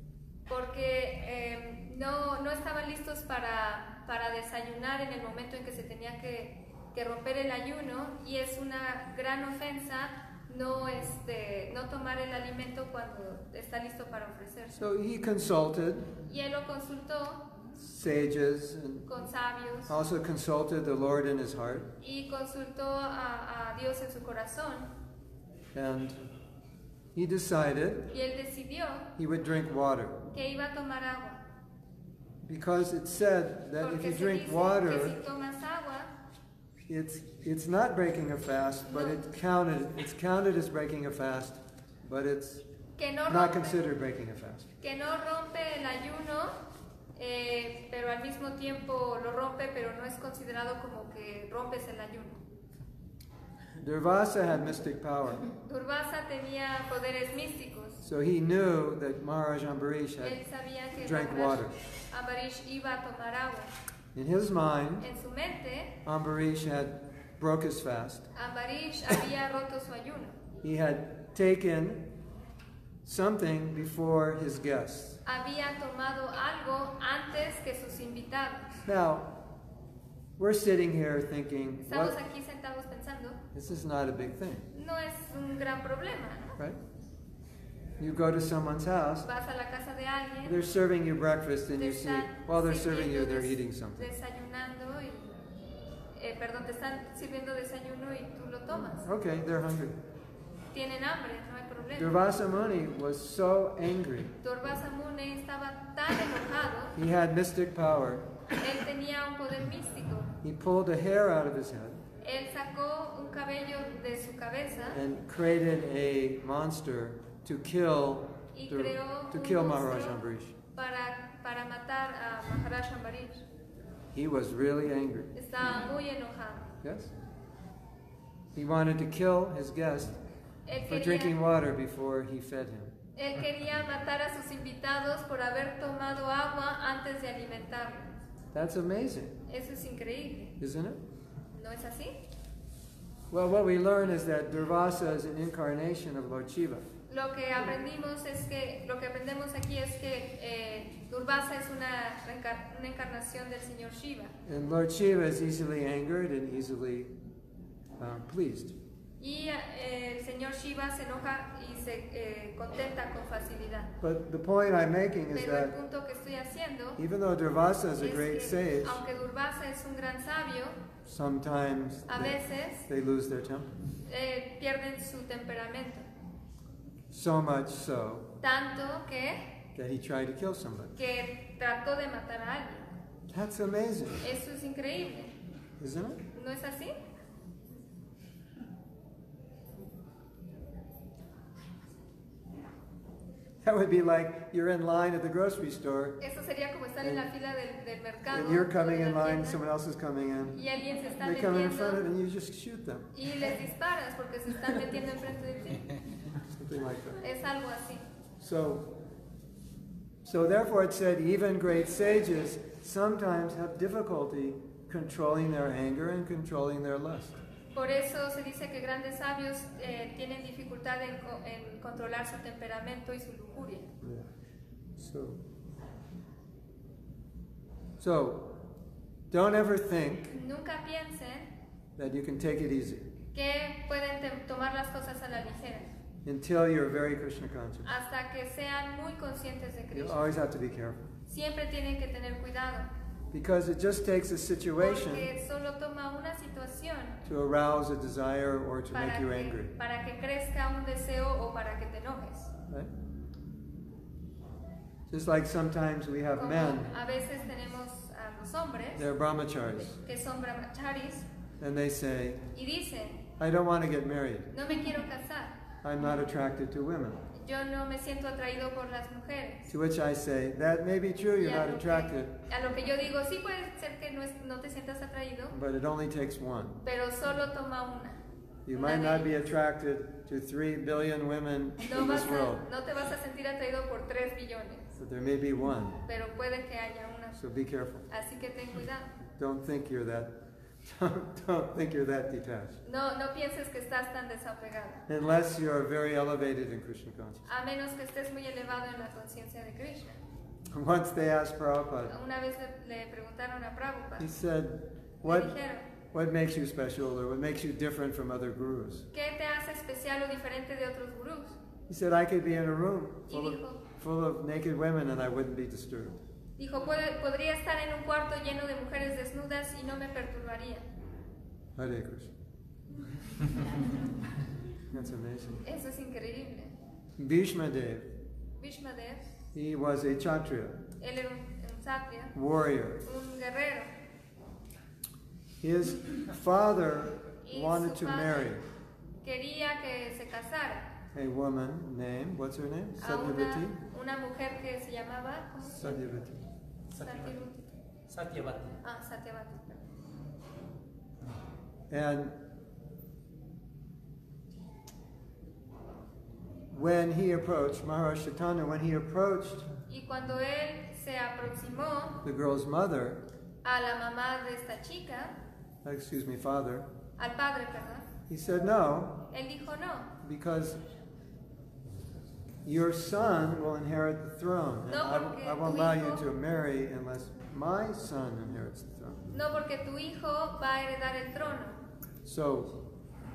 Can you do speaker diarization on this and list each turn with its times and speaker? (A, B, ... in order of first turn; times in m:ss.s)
0:00.5-0:14.8 A
0:14.8-0:16.1 B
0:16.2-0:17.5 A
0:17.8-0:19.1 B
0:19.1-0:20.0 A
0:19.9-0:21.9 B
0:22.0-0:24.9 A
0:25.7-0:26.2 B
0:27.2-0:28.1 B
0:28.1-0:29.1 A
0:29.2-0:30.2 B
0:30.3-0:31.4 A
0:32.4-0:35.2 B
0:33.8-0:36.1 A
0:36.9-0:42.6 B
0:38.9-0:39.2 A
0:43.0-0:43.8 A
0:43.3-0:44.7 B
0:44.8-0:46.6 A
0:47.2-0:52.4 A
0:53.8-0:55.5 B
0:55.6-0:58.0 A
0:58.0-1:00.4 B
1:00.2-1:03.7 A
1:01.0-1:01.8 B
1:04.1-1:05.1 B
1:05.0-1:06.0 A
1:06.0-1:08.3 B
1:08.3-1:10.4 A
1:10.6-1:12.2 B
1:13.0-1:15.2 B
1:15.2-1:18.8 A
1:18.8-1:19.4 B
1:20.4-1:22.2 B
1:21.8-1:23.4 A
1:23.5-1:24.7 B
1:24.7-1:26.6 A
1:28.0-1:29.3 B
1:29.2-1:30.6 A
1:30.4-1:34.1 B
1:31.8-1:35.4 A
1:36.2-1:39.1 A
1:39.0-1:40.0 B
1:40.7-1:42.2 A
1:42.0-1:44.4 B
1:44.4-1:47.0 A
1:47.0-1:48.3 B
1:48.6-1:50.4 A
1:50.4-1:52.0 B
1:52.2-1:55.0 A
1:54.9-2:00.6 B
1:58.5-2:00.2 A
2:00.8-2:03.4 A
2:04.1-2:05.3 B
2:05.3-2:06.7 A
2:06.8-2:07.1 B
2:08.6-2:10.2 B
2:10.7-2:11.4 A
2:10.9-2:13.0 B
2:13.2-2:18.2 A
2:18.5-2:19.4 B
2:19.5-2:20.6 A
2:20.6-2:21.0 B
2:21.5-2:22.2 A
2:23.3-2:26.8 B
2:27.1-2:34.3 A
2:34.5-2:37.1 B
2:38.0-2:38.8 B
2:39.2-2:43.9 A
2:44.0-2:45.7 B
2:45.3-2:47.0 A
2:47.0-2:49.0 B
2:48.0-2:50.8 A
2:51.0-2:53.7 B
2:52.1-2:52.9 A
2:54.1-2:56.1 A
2:57.1-2:58.4 B
2:58.4-2:59.5 A
2:59.8-3:01.0 B
3:01.0-3:02.9 A
3:03.3-3:04.3 B
3:04.2-3:05.3 A
3:05.8-3:06.2 B
3:06.3-3:07.0 A
3:13.6-3:16.2 B
3:16.2-3:19.6 A
3:17.0-3:17.3 B
3:18.3-3:20.6 B
3:20.5-3:22.1 A
3:21.2-3:23.1 B
3:23.1-3:25.9 A
3:26.5-3:27.2 B
3:27.2-3:28.0 A
3:28.4-3:29.0 B
3:30.2-3:37.4 B
3:37.7-3:43.9 A
3:44.0-3:44.3 B
3:45.0-3:45.4 B
3:48.0-3:48.6 B
3:49.3-3:50.3 B
3:50.3-3:51.5 A
3:52.0-3:53.1 B
3:53.3-3:55.9 A
3:56.2-3:57.9 B
3:57.8-4:00.3 A
3:59.9-4:01.1 B
4:01.3-4:02.9 A
4:03.3-4:05.3 B
4:04.8-4:07.2 A
4:07.2-4:09.7 B
4:08.9-4:12.5 A
4:15.1-4:17.0 B
4:16.4-4:19.1 A
4:19.0-4:20.0 B
4:20.0-4:21.3 A
4:21.6-4:22.5 B
4:22.5-4:23.3 A
4:23.4-4:24.5 B
4:24.5-4:25.6 A
4:25.8-4:27.2 B
4:27.3-4:29.7 A
4:29.7-4:32.4 B
4:31.4-4:35.6 A
4:35.5-4:36.8 B
4:36.8-4:38.2 A
4:38.7-4:42.6 B
4:38.7-4:39.4 A
4:41.8-4:44.9 A
4:45.0-4:46.0 B
4:46.0-4:47.4 A
4:47.4-4:48.1 B
4:48.1-4:49.1 A
4:49.3-4:52.8 B
4:52.8-4:55.1 A
4:55.1-4:57.5 B
4:57.4-5:00.2 A
5:00.7-5:02.2 B
5:02.1-5:04.3 A
5:04.2-5:05.5 B
5:05.2-5:05.9 A
5:06.1-5:09.1 B
5:09.1-5:11.6 A
5:11.9-5:16.2 B
5:13.3-5:13.8 A
5:16.6-5:20.9 A
5:21.8-5:22.3 B
5:24.9-5:25.6 B
5:25.6-5:26.8 A
5:27.2-5:28.1 B
5:28.6-5:29.3 A
5:29.5-5:30.9 B
5:31.0-5:32.4 A
5:32.4-5:33.0 B
5:33.0-5:33.9 A
5:35.6-5:38.6 B
5:37.4-5:38.5 A
5:39.2-5:40.9 A
5:41.1-5:43.8 B
5:43.0-5:46.0 A
5:45.6-5:46.4 B
5:46.9-5:47.7 A
5:48.8-5:49.8 A
5:51.9-5:52.4 B
5:56.7-5:59.7 B
5:59.9-6:02.2 A
6:02.2-6:03.2 B
6:03.6-6:05.4 A
6:05.8-6:06.9 B
6:07.2-6:08.1 A
6:08.3-6:09.3 B
6:09.3-6:10.2 A
6:10.2-6:10.8 B
6:12.6-6:19.2 B
6:14.9-6:16.3 A
6:19.3-6:21.8 A
6:22.2-6:22.9 B